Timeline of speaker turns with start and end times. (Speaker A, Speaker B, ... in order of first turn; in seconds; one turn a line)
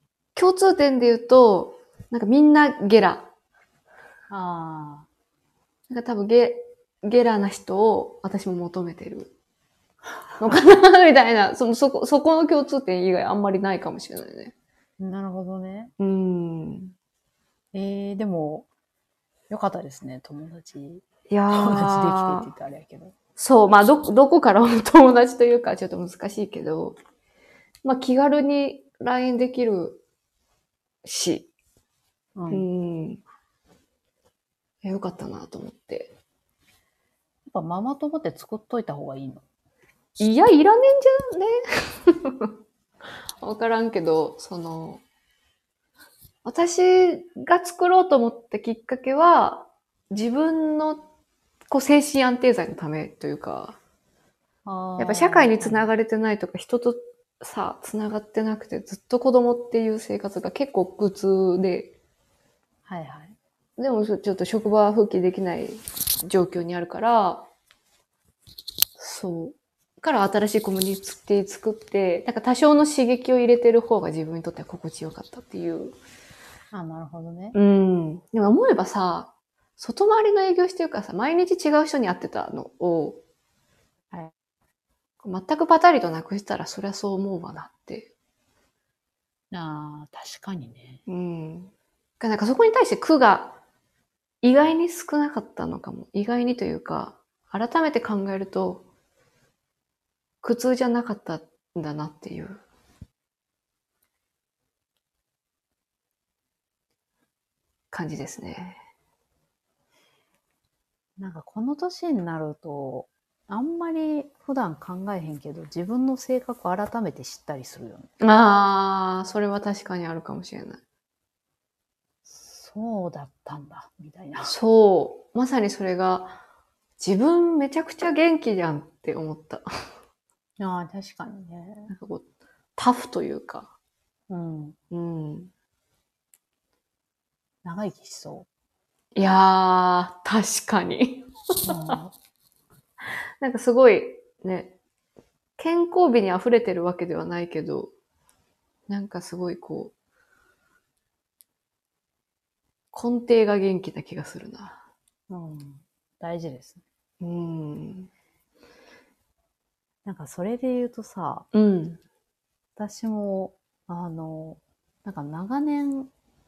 Speaker A: 0.4-3.3
Speaker B: 4.3-5.1
Speaker A: 5.9-9.3
Speaker A: 10.4-14.5
Speaker B: 15.0-15.9
Speaker A: 16.0-16.9
Speaker B: 17.7-18.7
Speaker B: 19.5-23.1
Speaker A: 21.3-22.5
Speaker A: 23.4-27.0
Speaker A: 27.8-30.0
Speaker A: 31.1-31.5
Speaker B: 32.4-32.7
Speaker A: 32.5-33.2
Speaker A: 34.8-36.1
Speaker B: 37.5-39.4
Speaker A: 40.2-42.5
Speaker A: 43.4-45.0
Speaker A: 46.5-51.1
Speaker A: 51.7-53.8
Speaker B: 54.6-55.9
Speaker A: 55.0-61.9
Speaker B: 62.9-63.4
Speaker A: 63.8-67.5
Speaker A: 69.0-76.0
Speaker B: 76.7-77.6
Speaker A: 77.5-83.2
Speaker A: 85.2-88.1
Speaker B: 89.5-91.0
Speaker A: 91.1-93.6
Speaker A: 94.4-98.8
Speaker A: 100.4-102.6
Speaker A: 107.9-108.8
Speaker B: 111.2-118.1
Speaker A: 118.2-120.8
Speaker B: 122.2-124.5
Speaker A: 124.4-126.4
Speaker A: 127.0-129.7
Speaker B: 130.6-131.9
Speaker A: 131.9-132.2
Speaker A: 132.8-133.7
Speaker B: 134.3-134.8
Speaker A: 134.9-135.5
Speaker B: 137.6-138.5
Speaker A: 139.2-142.0
Speaker B: 141.7-142.1
Speaker A: 143.4-144.8
Speaker A: 145.6-147.9
Speaker A: 148.9-149.9
Speaker A: 152.9-154.8
Speaker B: 155.3-156.8
Speaker A: 157.2-158.1
Speaker B: 160.1-161.5
Speaker A: 161.5-162.0
Speaker B: 162.8-166.1